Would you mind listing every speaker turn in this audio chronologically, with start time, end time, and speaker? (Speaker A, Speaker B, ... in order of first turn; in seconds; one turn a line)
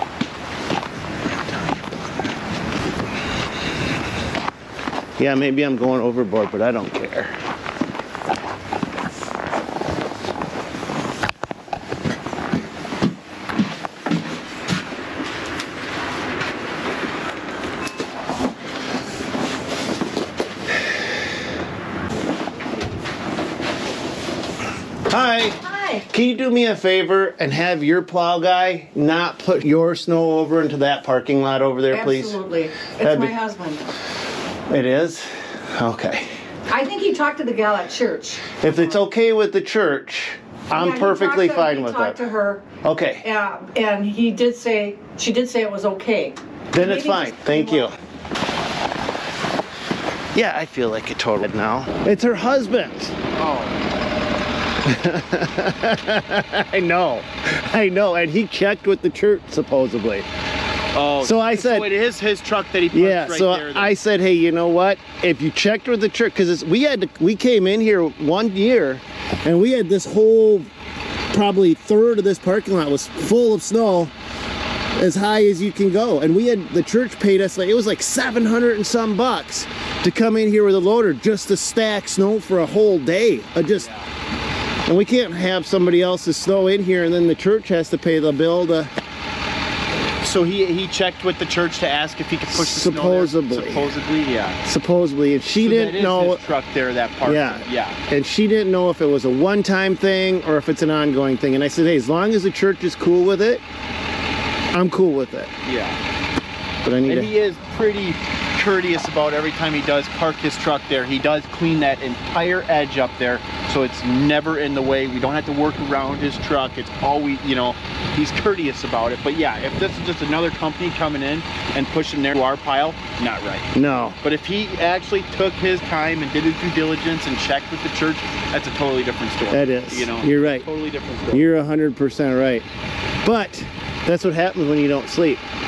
Speaker A: 5.2-7.3
Speaker A: 25.1-32.4
Speaker B: 31.9-33.8
Speaker A: 33.0-33.4
Speaker A: 34.7-36.3
Speaker B: 36.7-38.9
Speaker A: 38.6-42.2
Speaker B: 40.7-42.7
Speaker A: 42.8-43.3
Speaker B: 43.2-47.9
Speaker A: 46.7-48.0
Speaker A: 50.4-53.1
Speaker C: 53.4-53.7
Speaker A: 54.9-60.2
Speaker C: 60.9-64.0
Speaker A: 61.2-62.0
Speaker A: 62.9-70.7
Speaker A: 71.3-74.1
Speaker A: 75.0-83.9
Speaker C: 83.7-84.1
Speaker A: 84.9-88.9
Speaker C: 90.2-94.6
Speaker A: 92.5-93.9
Speaker A: 94.7-96.5
Speaker C: 95.5-98.0
Speaker A: 97.2-103.6
Speaker A: 104.7-105.5
Speaker C: 105.6-106.0
Speaker A: 106.8-107.3
Speaker C: 107.1-123.7
Speaker A: 123.7-124.2
Speaker C: 124.2-131.5
Speaker A: 129.5-130.7
Speaker A: 131.3-132.7
Speaker A: 133.2-135.4